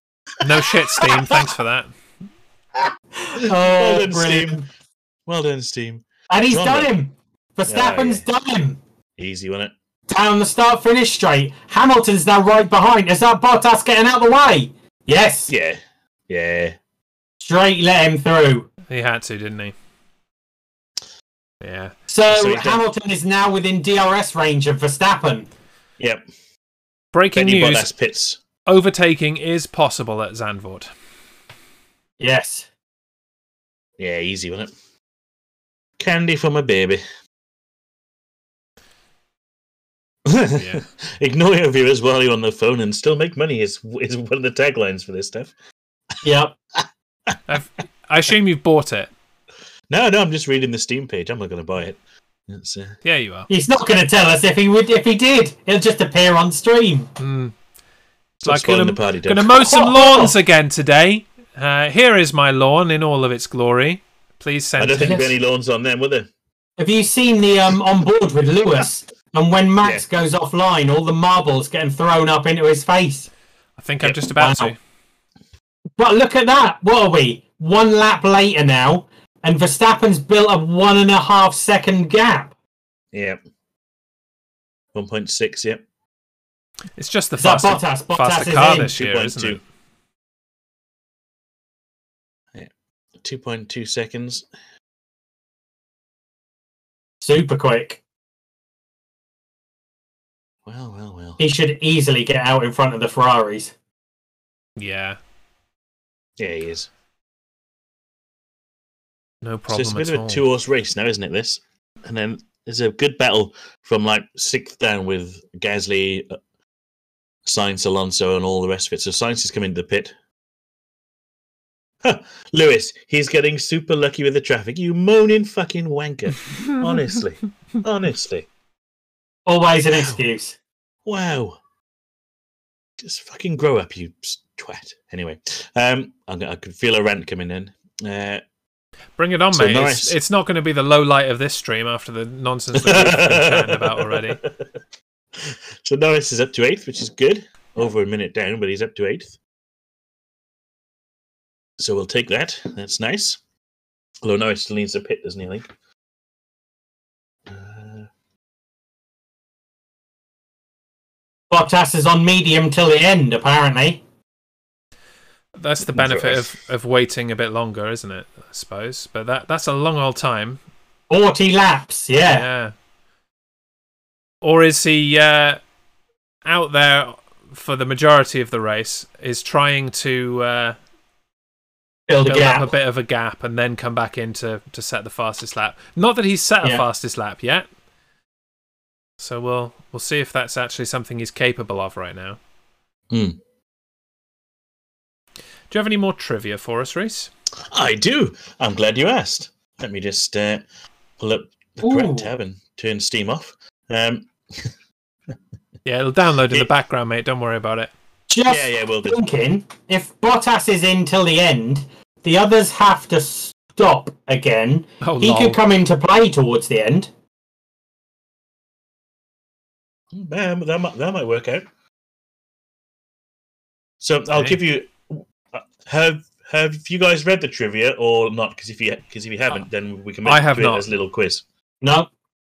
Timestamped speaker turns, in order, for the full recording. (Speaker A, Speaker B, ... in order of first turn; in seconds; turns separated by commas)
Speaker A: 0.4-1.9, Speaker B: 0.4-1.1, Speaker C: 3.2-4.7, Speaker B: 3.4-4.6, Speaker B: 5.3-6.9, Speaker C: 6.3-8.8, Speaker B: 7.7-8.2, Speaker B: 9.2-9.7, Speaker C: 10.1-15.5, Speaker B: 15.5-16.8, Speaker C: 17.4-18.7, Speaker A: 18.9-19.7, Speaker A: 21.6-21.9, Speaker C: 22.1-25.5, Speaker B: 22.3-22.8, Speaker A: 27.1-27.9, Speaker B: 27.3-28.4, Speaker A: 28.7-30.9, Speaker C: 32.2-32.7, Speaker B: 34.0-34.7, Speaker B: 36.0-37.0, Speaker B: 40.2-45.5, Speaker A: 40.5-40.8, Speaker C: 46.2-46.6, Speaker A: 47.5-49.1, Speaker B: 49.9-53.0, Speaker A: 53.0-53.5, Speaker C: 53.5-57.1, Speaker A: 57.2-57.5, Speaker B: 58.4-59.5, Speaker A: 58.4-65.3, Speaker C: 59.5-60.3, Speaker B: 64.8-66.3, Speaker C: 65.0-65.3, Speaker C: 66.8-73.3, Speaker A: 73.8-74.8, Speaker C: 74.3-74.7, Speaker C: 76.0-82.5, Speaker B: 83.1-83.4, Speaker B: 84.9-85.8, Speaker A: 87.0-89.6, Speaker C: 87.4-88.9, Speaker B: 88.8-89.6, Speaker B: 92.5-94.5, Speaker C: 97.2-98.0, Speaker B: 100.7-101.4, Speaker C: 101.4-103.7, Speaker A: 104.8-105.2, Speaker B: 106.4-106.9, Speaker A: 109.4-110.4, Speaker B: 109.7-116.4, Speaker B: 117.5-120.2, Speaker B: 122.0-128.5, Speaker C: 129.5-130.6, Speaker B: 129.9-130.2, Speaker B: 131.1-131.6, Speaker B: 133.0-138.4, Speaker A: 139.2-144.4, Speaker B: 139.5-140.2, Speaker B: 142.7-144.5, Speaker B: 145.4-149.3, Speaker B: 151.8-153.4, Speaker B: 154.2-155.7, Speaker B: 157.5-158.1, Speaker C: 161.5-164.0, Speaker A: 165.6-170.6, Speaker B: 165.9-166.5, Speaker C: 171.1-172.4, Speaker A: 172.2-172.7, Speaker A: 174.4-175.6, Speaker A: 176.4-180.8, Speaker C: 182.1-182.7, Speaker A: 182.3-187.7, Speaker A: 189.2-192.4, Speaker B: 193.1-193.4, Speaker A: 195.7-197.3, Speaker B: 197.7-200.7, Speaker B: 201.2-204.7, Speaker C: 201.8-202.3, Speaker A: 205.8-207.9, Speaker C: 208.3-217.1, Speaker B: 208.5-209.2, Speaker A: 215.0-215.6, Speaker B: 220.1-221.6, Speaker B: 224.0-231.4, Speaker A: 230.2-230.8, Speaker C: 231.8-232.1